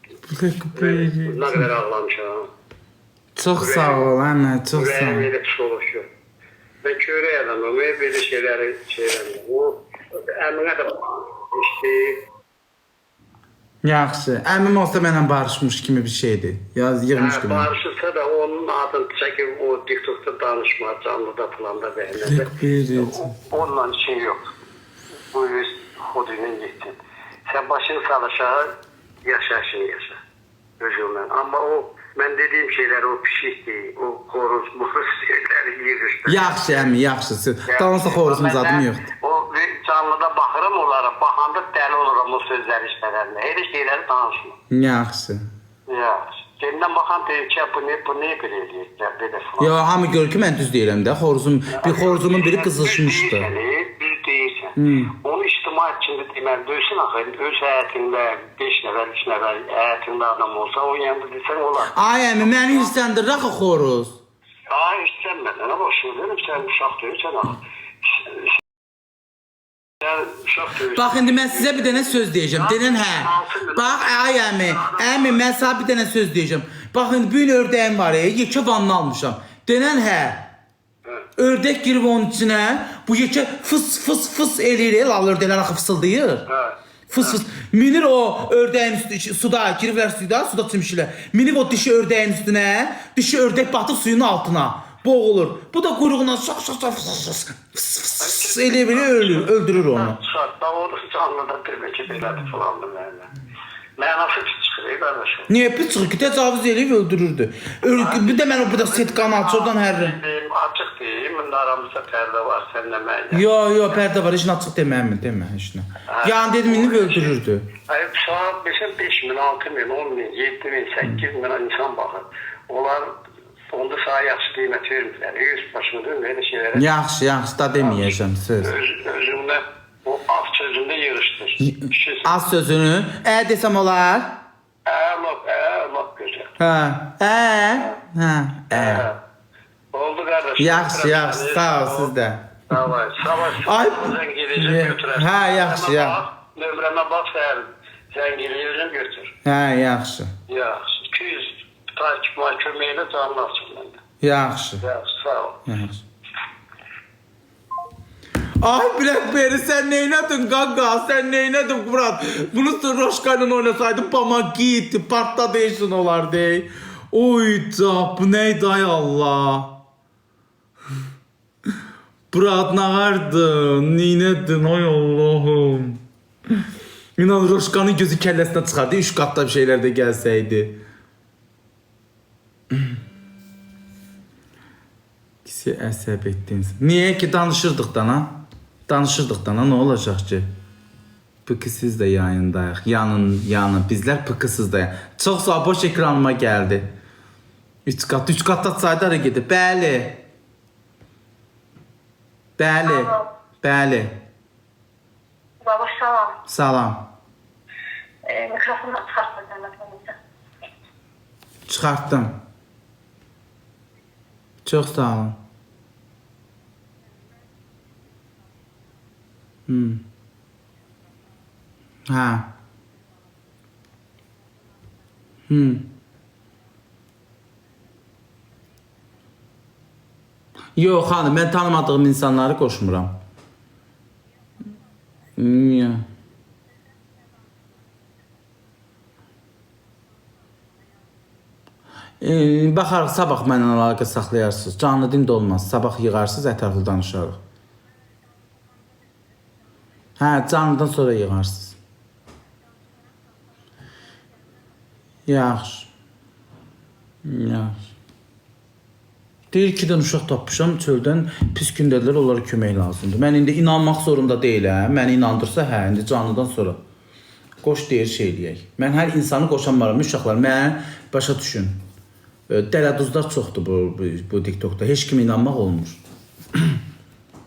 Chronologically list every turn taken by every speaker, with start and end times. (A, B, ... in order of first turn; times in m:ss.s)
0:00.3-0:01.7 A
0:00.8-0:02.5 B
0:03.4-0:05.3 A
0:03.6-0:04.1 B
0:04.8-0:06.1 B
0:06.8-0:12.2 B
0:13.8-0:17.7 A
0:17.1-0:24.5 B
0:22.2-0:23.3 A
0:25.3-0:27.0 B
0:27.5-0:28.7 B
0:29.2-0:30.2 B
0:30.8-0:36.9 B
0:36.2-0:39.0 A
0:37.7-0:44.6 B
0:44.7-0:45.4 A
0:45.9-0:49.7 B
0:49.6-0:53.5 A
0:51.7-1:02.9 B
0:54.8-0:55.1 A
1:01.9-1:04.2 A
1:04.7-1:07.6 B
1:08.2-1:08.5 B
1:10.0-1:15.5 B
1:10.9-1:20.5 A
1:21.4-1:26.5 A
1:26.5-1:27.4 B
1:27.1-1:40.2 A
1:38.2-1:43.3 B
1:44.0-1:45.5 B
1:45.5-1:50.2 A
1:47.8-1:54.0 B
1:53.3-1:57.7 A
1:56.1-2:03.1 B
2:03.7-2:06.9 B
2:06.8-2:08.7 A
2:07.8-2:12.4 B
2:11.6-2:14.4 A
2:14.9-2:16.5 B
2:16.6-2:19.0 A
2:18.7-2:19.2 B
2:19.9-2:22.1 B
2:20.6-2:22.8 A
2:22.7-2:29.3 B
2:23.6-2:26.2 A
2:29.4-2:30.3 A
2:30.5-2:34.0 B
2:34.2-2:34.8 A
2:34.8-2:35.6 B
2:35.7-2:36.0 A
2:38.6-2:49.8 A
2:52.3-2:56.0 A
2:57.2-3:00.8 A
3:02.7-3:03.0 A
3:05.4-3:10.5 A
3:11.5-3:16.9 A
3:17.9-3:20.2 A
3:22.6-3:24.2 A
3:22.9-3:23.3 C
3:25.6-3:26.4 C
3:26.5-3:27.1 A
3:28.3-3:30.2 C
3:31.7-3:32.4 A
3:34.7-3:35.4 A
3:39.7-3:40.0 A
3:42.1-3:42.5 A
3:45.5-3:45.9 A
3:50.8-3:53.1 A
3:55.4-3:56.1 A
4:02.2-4:07.4 A
4:10.2-4:11.8 A
4:15.3-4:15.9 A
4:17.2-4:17.8 A
4:19.5-4:26.8 A
4:27.6-4:31.8 A
4:32.5-4:36.0 A